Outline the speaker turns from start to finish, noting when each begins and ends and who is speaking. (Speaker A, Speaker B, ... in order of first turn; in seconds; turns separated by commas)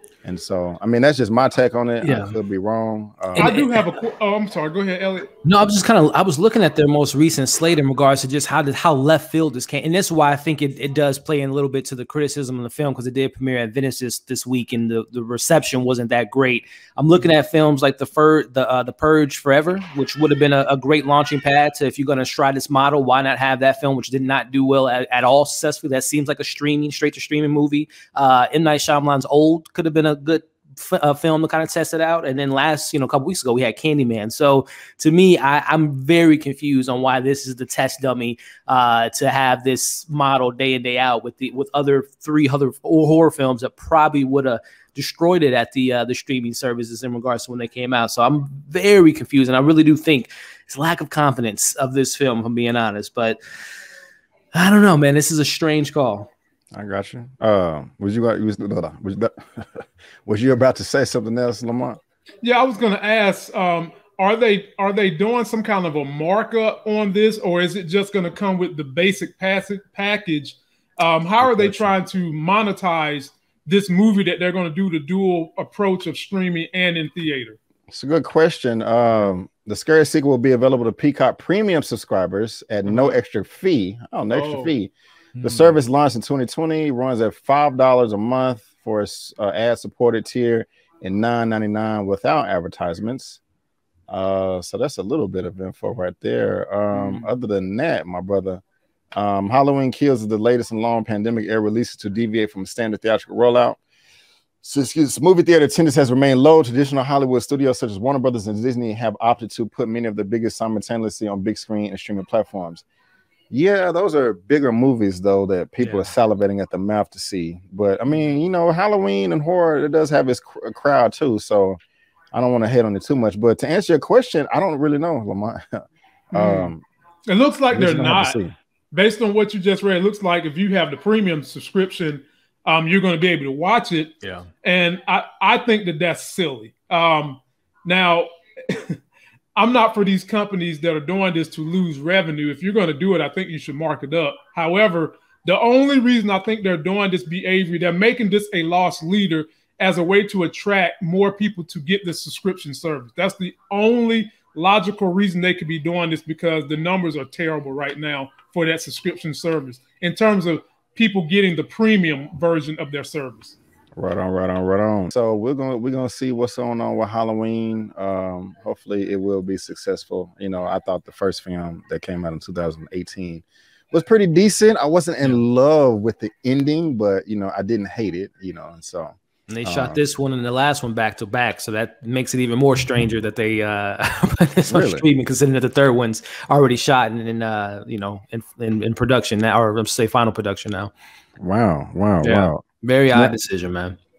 Speaker A: 0.2-3.5, Speaker B: 2.0-2.4, Speaker B: 3.3-3.8, Speaker C: 3.4-5.3, Speaker B: 5.4-53.4, Speaker B: 54.5-56.3, Speaker A: 56.7-62.0, Speaker C: 62.4-77.6, Speaker A: 71.4-71.9, Speaker A: 77.9-93.4, Speaker C: 82.9-83.2, Speaker C: 84.3-84.8, Speaker B: 85.4-85.8, Speaker A: 94.1-98.6, Speaker C: 97.0-97.2, Speaker A: 99.2-103.8, Speaker A: 104.6-112.9, Speaker A: 113.5-121.8, Speaker B: 115.8-116.1, Speaker A: 122.3-126.8, Speaker C: 126.3-126.7, Speaker C: 127.3-128.4, Speaker A: 127.7-128.5, Speaker C: 128.9-139.0, Speaker B: 134.2-134.5, Speaker C: 139.6-163.6, Speaker A: 164.0-180.0, Speaker B: 179.5-190.9, Speaker A: 184.7-185.1, Speaker A: 191.4-193.3, Speaker B: 192.2-194.0